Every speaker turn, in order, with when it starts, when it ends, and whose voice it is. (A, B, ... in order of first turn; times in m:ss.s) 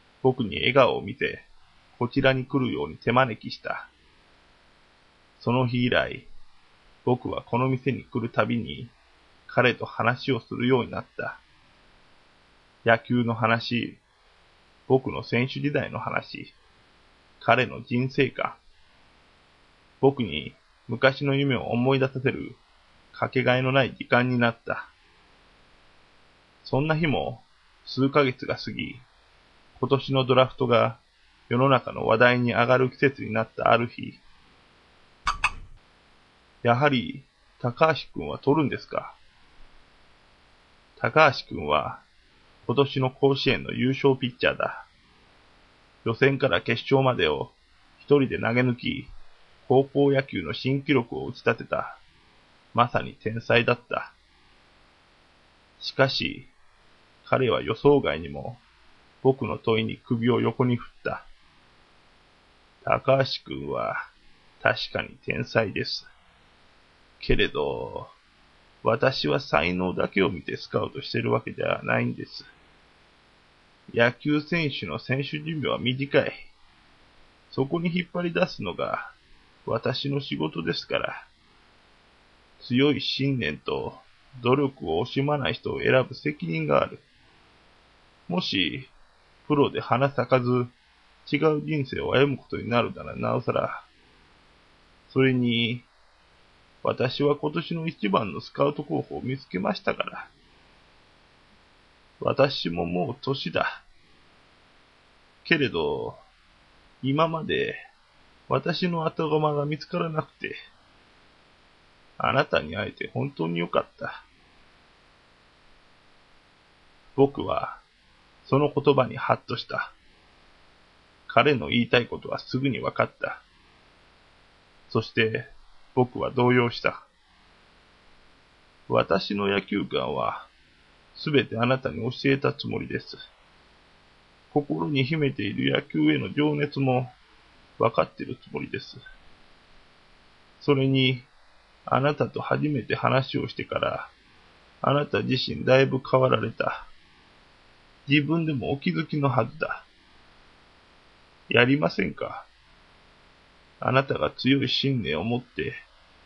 0:00.2-0:03.9 A
0:05.4-0:06.3 A
0:07.0-0:08.9 A
0:09.5-0:11.4 A
0:12.8-0:14.0 A
0:14.9-0:16.5 A
0:17.4-0:18.6 A
0:20.0-0:22.6 A
0:23.1-0:24.9 A
0:26.6-0:29.0 A
0:29.8-0:34.2 A
0:36.6-0:39.2 A
0:41.0-0:42.0 A
0:42.6-0:44.9 A
0:46.0-0:49.1 A
0:49.6-0:52.0 A
0:52.7-0:54.1 A
0:55.8-0:56.5 A
0:57.2-0:58.6 A
0:59.2-1:01.2 A
1:02.8-1:04.1 A
1:04.6-1:06.1 A
1:07.2-1:08.1 A
1:08.8-1:12.5 A
1:13.9-1:16.5 A
1:17.5-1:19.1 A
1:19.6-1:21.3 A
1:22.6-1:27.0 A
1:28.3-1:28.9 A
1:29.4-1:30.7 A
1:31.3-1:33.8 A
1:35.1-1:35.9 A
1:36.8-1:40.3 A
1:42.2-1:43.8 A
1:45.4-1:46.2 A
1:47.0-1:47.8 A
1:48.5-1:50.6 A
1:52.2-1:54.2 A
1:57.2-1:57.8 A
1:58.4-1:59.9 A
2:01.3-2:03.4 A
2:04.9-2:07.0 A
2:08.9-2:10.5 A
2:11.2-2:13.2 A
2:14.5-2:17.1 A
2:17.8-2:19.0 A
2:20.6-2:21.3 A
2:21.9-2:24.1 A
2:24.8-2:26.9 A
2:28.1-2:29.8 A
2:31.5-2:32.5 A
2:33.8-2:35.8 A